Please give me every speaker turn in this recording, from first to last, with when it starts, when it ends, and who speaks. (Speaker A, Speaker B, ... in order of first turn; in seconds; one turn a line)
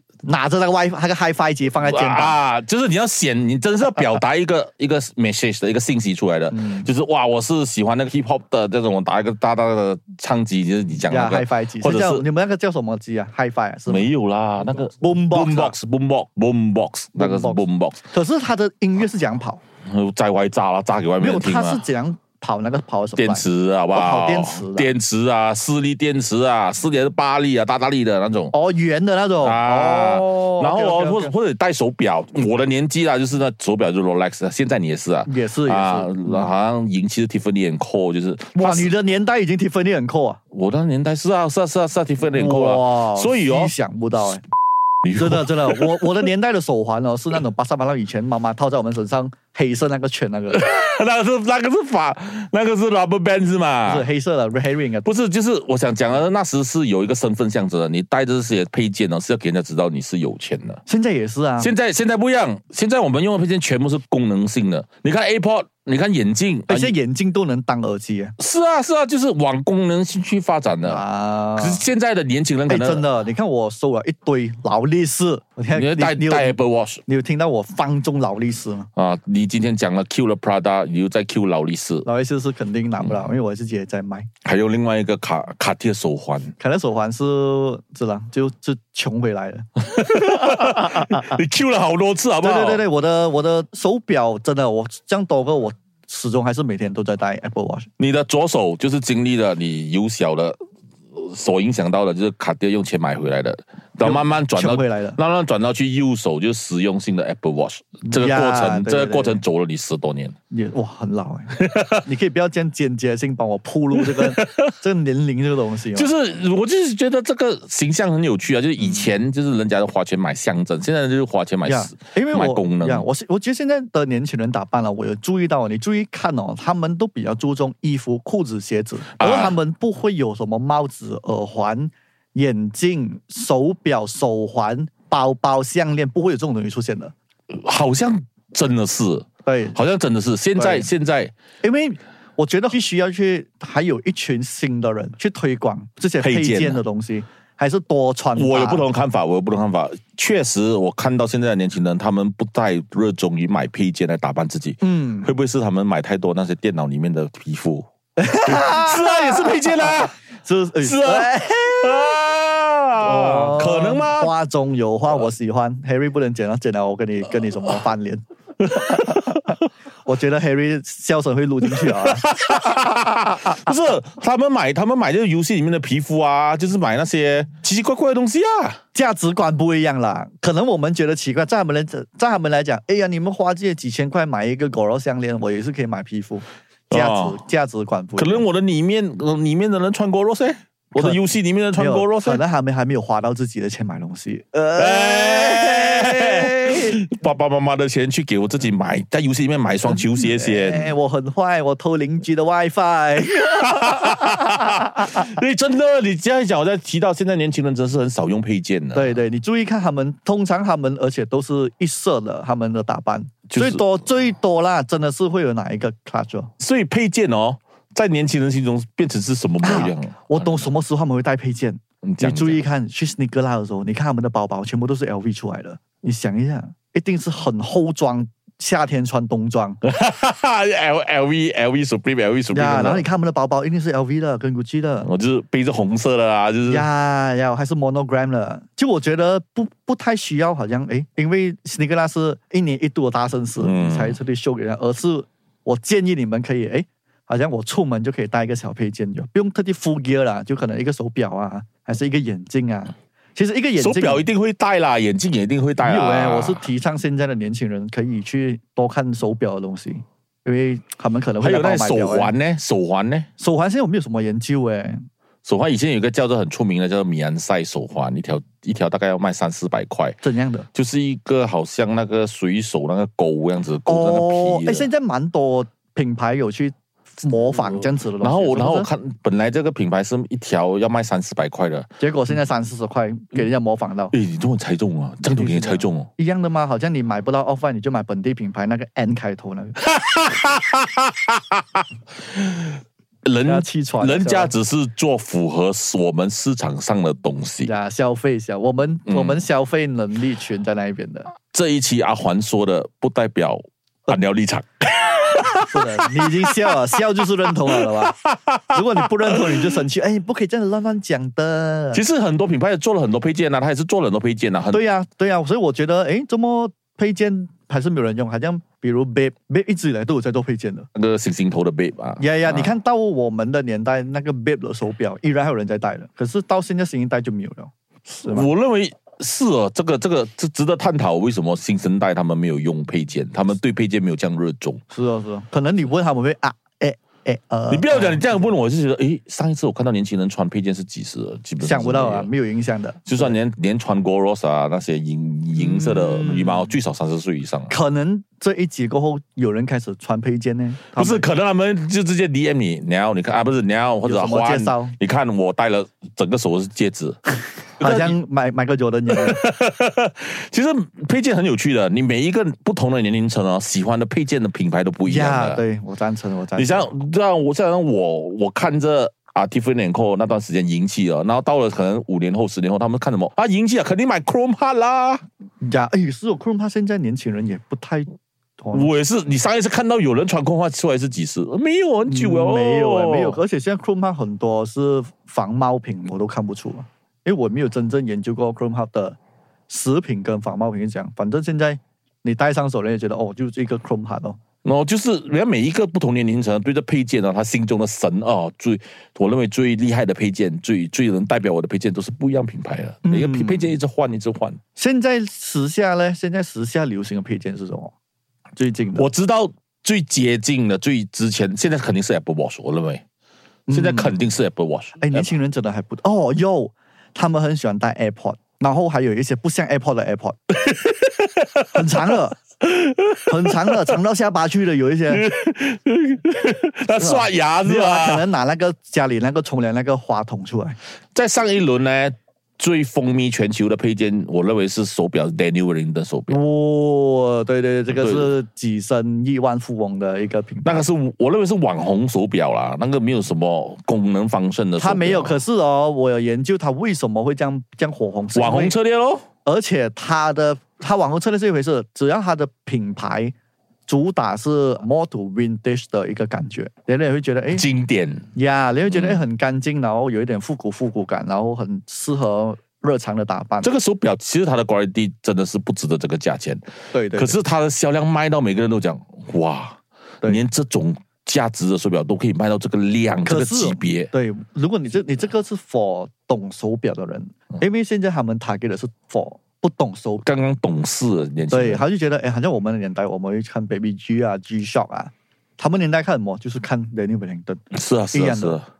Speaker A: 0.2-2.4
Speaker B: 1.8-12.2
Speaker A: 6.5-6.9
Speaker A: 11.1-14.1
Speaker B: 13.9-18.0
Speaker A: 15.0-15.7
Speaker A: 17.2-19.6
Speaker B: 19.8-21.8
Speaker A: 21.2-24.9
Speaker B: 23.2-28.5
Speaker A: 28.5-31.3
Speaker B: 29.4-38.9
Speaker A: 35.2-36.5
Speaker A: 38.5-40.4
Speaker B: 40.5-43.7
Speaker A: 42.2-44.4
Speaker B: 45.0-46.1
Speaker A: 45.1-50.6
Speaker B: 50.5-54.1
Speaker A: 53.9-55.1
Speaker B: 55.0-60.8
Speaker A: 60.9-61.7
Speaker B: 61.6-66.9
Speaker A: 66.7-68.3
Speaker B: 68.4-71.0
Speaker A: 70.8-71.8
Speaker B: 71.6-73.0
Speaker A: 72.7-78.9
Speaker B: 75.7-77.0
Speaker B: 79.0-82.0
Speaker A: 82.0-84.3
Speaker B: 84.4-86.5
Speaker A: 86.6-91.4
Speaker B: 89.9-92.8
Speaker A: 92.4-97.9
Speaker B: 98.0-100.6
Speaker B: 101.1-110.3
Speaker A: 104.0-105.2
Speaker A: 108.0-109.4
Speaker A: 110.5-116.1
Speaker B: 111.6-112.0
Speaker B: 114.0-114.7
Speaker B: 115.9-123.1
Speaker A: 121.7-137.1
Speaker B: 129.2-129.6
Speaker B: 137.5-141.3
Speaker A: 139.4-139.8
Speaker A: 140.6-140.9
Speaker A: 141.6-148.8
Speaker B: 146.2-146.8
Speaker B: 148.3-160.1
Speaker A: 154.8-155.3
Speaker A: 158.2-162.1
Speaker B: 160.8-164.3
Speaker A: 163.0-168.2
Speaker B: 168.7-169.5
Speaker A: 168.7-172.8
Speaker B: 171.7-178.8
Speaker A: 173.4-173.7
Speaker A: 178.9-188.4
Speaker B: 186.9-187.4
Speaker B: 188.2-192.4
Speaker A: 190.9-191.2
Speaker A: 191.8-197.0
Speaker B: 194.8-200.9
Speaker A: 199.9-205.0
Speaker B: 203.6-209.2
Speaker A: 208.9-216.5
Speaker B: 213.5-213.8
Speaker B: 216.6-220.7
Speaker A: 219.6-229.8
Speaker B: 222.0-222.6
Speaker B: 229.8-233.0
Speaker A: 232.5-235.1
Speaker B: 235.0-236.9
Speaker A: 236.7-254.2
Speaker B: 243.6-244.2
Speaker B: 253.8-256.6
Speaker A: 255.8-262.3
Speaker B: 261.4-263.3
Speaker A: 263.4-265.1
Speaker B: 265.4-270.2
Speaker A: 270.2-270.7
Speaker B: 270.7-274.9
Speaker A: 273.9-278.9
Speaker B: 278.2-281.9
Speaker A: 282.0-284.1
Speaker B: 284.1-286.1
Speaker A: 285.2-289.8
Speaker B: 289.8-297.7
Speaker A: 293.4-294.5
Speaker A: 297.6-301.3
Speaker B: 299.1-299.4
Speaker B: 301.5-306.7
Speaker A: 305.6-312.0
Speaker B: 307.7-309.7
Speaker B: 311.9-314.8
Speaker A: 314.7-320.9
Speaker B: 320.9-322.7
Speaker A: 322.2-327.7
Speaker A: 328.2-328.5
Speaker B: 328.2-334.8
Speaker A: 334.9-338.5
Speaker B: 337.7-342.3
Speaker A: 341.6-343.3
Speaker B: 343.1-347.7
Speaker A: 345.5-346.7
Speaker A: 347.7-351.2
Speaker B: 350.9-357.2
Speaker A: 354.0-355.0
Speaker B: 357.8-358.2
Speaker A: 357.8-359.4
Speaker B: 359.1-365.6
Speaker A: 365.1-366.9
Speaker B: 366.6-375.2
Speaker A: 375.6-378.9
Speaker B: 378.7-383.4
Speaker A: 382.1-389.2
Speaker A: 389.7-394.4
Speaker B: 394.6-404.6
Speaker A: 403.0-403.7
Speaker A: 404.8-407.9
Speaker A: 408.6-409.1
Speaker B: 408.9-413.0
Speaker A: 413.7-414.2
Speaker B: 413.7-415.3
Speaker A: 415.0-420.4
Speaker B: 420.6-421.8
Speaker A: 421.7-422.4
Speaker B: 422.6-423.8
Speaker A: 423.2-425.3
Speaker B: 425.1-428.3
Speaker A: 426.9-430.8
Speaker B: 431.1-436.4
Speaker A: 436.3-440.9
Speaker B: 437.9-438.3
Speaker B: 440.6-445.4
Speaker A: 444.8-448.7
Speaker B: 448.3-449.2
Speaker A: 449.4-453.3
Speaker A: 453.9-457.6
Speaker B: 457.5-458.3
Speaker A: 458.3-463.7
Speaker B: 458.9-459.2
Speaker B: 463.6-474.1
Speaker A: 466.9-467.4
Speaker A: 473.2-480.2
Speaker B: 480.2-481.8
Speaker A: 481.5-487.6
Speaker B: 487.7-488.6
Speaker A: 488.1-488.6